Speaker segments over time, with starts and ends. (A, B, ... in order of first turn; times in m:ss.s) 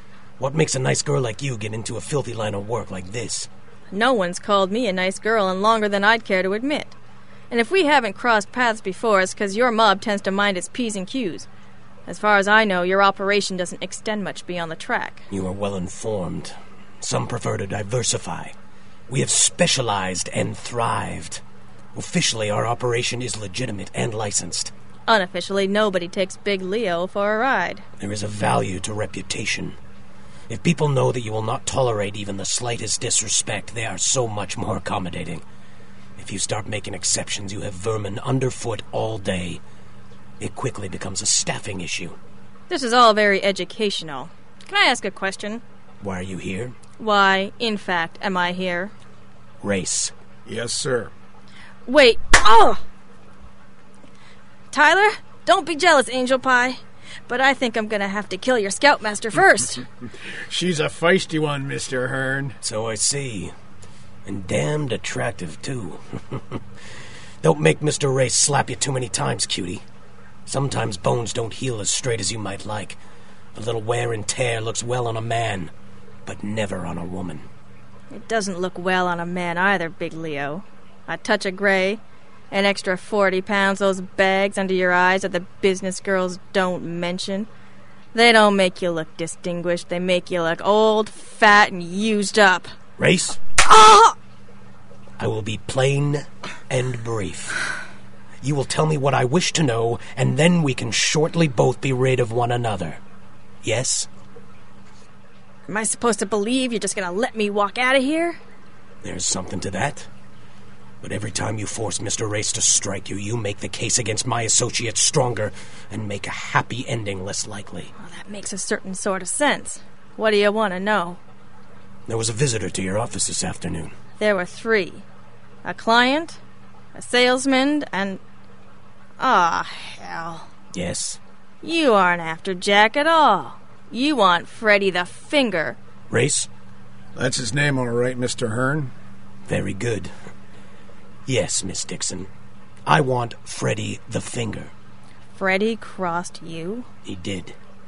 0:00.4-0:03.5 A
0:03.9-0:06.9 B
0:07.5-0:11.5 B
0:12.1-0:15.2 B
0:15.3-0:18.5 A
0:19.1-0:21.4 A
0:21.9-0:24.7 A
0:25.1-0:27.8 B
0:28.0-0:29.8 A
0:30.5-0:35.4 A
0:36.2-0:39.6 A
0:40.4-0:42.2 A
0:42.7-0:45.6 B
0:46.0-0:46.8 A
0:47.0-0:48.9 B
0:49.6-0:50.1 A
0:50.4-0:51.1 C
0:51.8-0:52.8 B
0:54.7-0:59.8 B
1:00.5-1:02.6 C
1:02.6-1:03.5 A
1:04.2-1:06.6 A
1:07.4-1:09.8 A
1:10.4-1:13.0 A
1:13.5-1:15.7 A
1:16.2-1:17.5 A
1:18.1-1:27.5 B
1:28.1-1:32.7 B
1:33.0-1:33.4 A
1:33.6-1:34.1 B
1:35.2-1:37.6 A
1:38.4-1:43.0 A
1:43.6-1:44.1 A
1:45.7-1:48.4 B
1:49.0-1:50.1 A
1:51.0-1:57.9 A
1:58.0-2:01.2 B
2:02.0-2:03.9 A
2:04.2-2:05.0 B
2:05.6-2:06.4 B
2:06.9-2:08.2 B
2:09.2-2:10.5 B
2:10.7-2:11.2 A
2:11.6-2:15.8 B
2:16.1-2:16.5 A
2:17.2-2:18.9 C
2:19.5-2:20.1 A
2:21.2-2:22.3 A
2:22.8-2:24.7 A
2:25.4-2:26.9 B
2:27.0-2:27.6 A